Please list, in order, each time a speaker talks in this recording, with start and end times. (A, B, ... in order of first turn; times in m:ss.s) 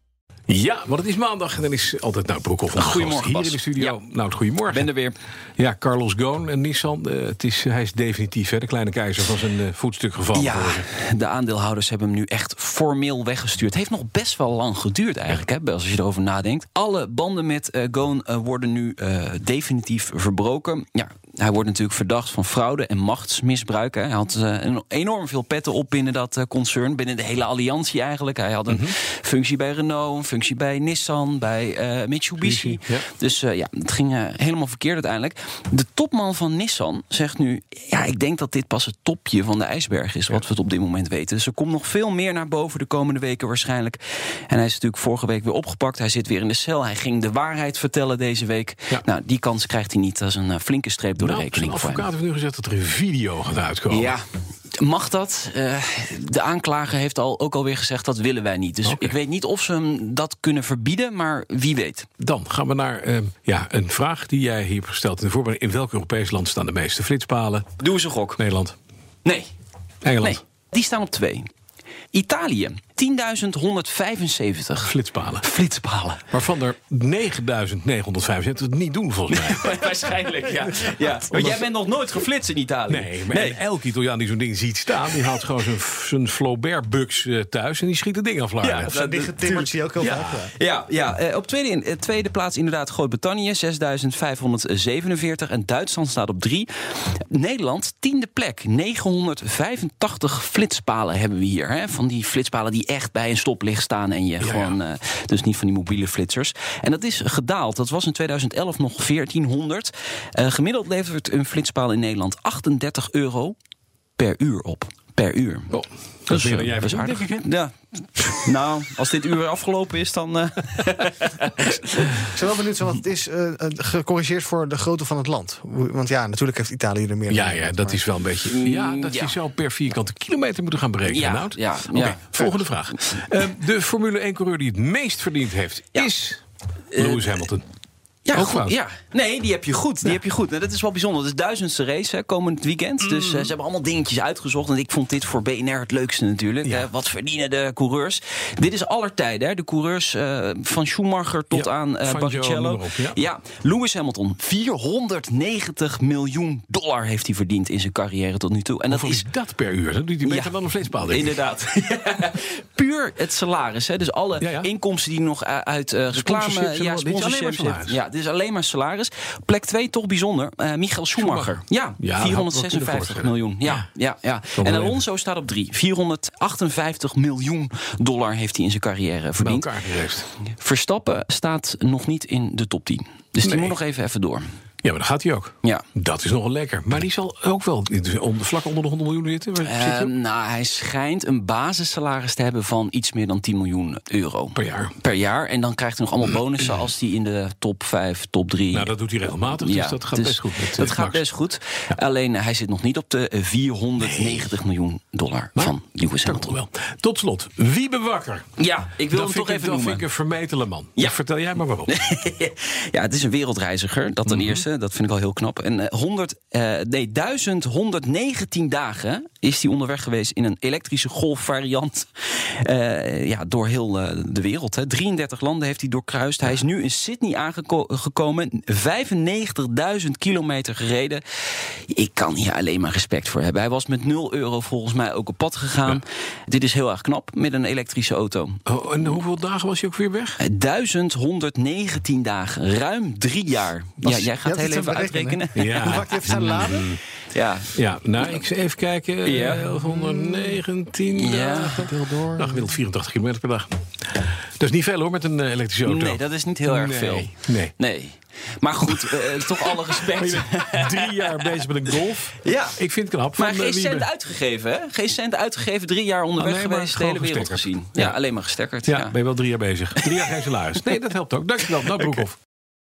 0:00.5-0:04.9 A
0:02.7-0:04.0 B
0:04.7-0:05.2 B
0:05.6-0:10.8 A
0:10.3-0:52.1 B
0:28.7-0:28.9 A
0:32.4-0:33.0 A
0:51.2-0:54.2 A
0:53.9-1:02.1 B
0:58.8-0:59.1 A
1:02.2-1:07.7 A
1:07.8-1:08.4 B
1:08.4-1:08.8 A
1:09.2-1:09.5 B
1:10.0-1:10.4 A
1:10.2-1:11.5 B
1:12.1-1:16.3 B
1:14.8-1:15.4 A
1:16.3-1:19.9 A
1:19.3-1:23.6 B
1:21.3-1:21.7 A
1:22.9-1:30.2 A
1:28.6-1:53.6 B
1:28.9-1:30.5 C
1:44.4-1:44.8 A
1:54.2-1:55.7 B
1:55.7-1:57.4 A
1:56.3-2:02.3 B
2:02.3-2:08.0 C
2:07.3-2:16.4 A
2:08.5-2:09.4 B
2:11.0-2:12.4 B
2:16.9-2:17.3 B
2:16.9-2:17.6 A
2:18.2-2:39.3 B
2:18.3-2:18.8 A
2:23.0-2:23.5 A
2:26.6-2:26.9 A
2:31.5-2:33.2 A
2:38.9-2:41.4 A
2:40.2-2:59.7 B
2:44.4-2:44.7 A
2:46.1-2:48.0 A
2:51.2-2:53.8 A
2:54.6-2:55.0 A
2:59.4-3:00.3 A
3:00.4-3:04.4 B
3:03.4-3:03.8 A
3:04.8-3:10.1 A
3:09.6-3:26.6 B
3:14.5-3:14.9 A
3:18.7-3:21.2 A
3:24.0-3:24.5 A
3:25.6-3:28.4 A
3:28.6-3:30.1 B
3:29.1-3:31.9 A
3:31.9-3:58.6 B
3:34.3-3:34.6 A
3:58.6-4:00.4 A
4:00.4-4:06.7 B
4:04.0-4:07.0 C
4:05.5-4:07.0 A
4:07.3-4:07.7 B
4:07.7-4:17.7 A
4:09.2-4:09.7 B
4:11.1-4:11.9 B
4:11.6-4:12.6 C
4:15.8-4:22.8 B
4:18.9-4:24.1 A
4:23.3-4:29.2 B
4:26.4-4:28.2 A
4:28.8-4:32.4 A
4:30.0-4:30.5 B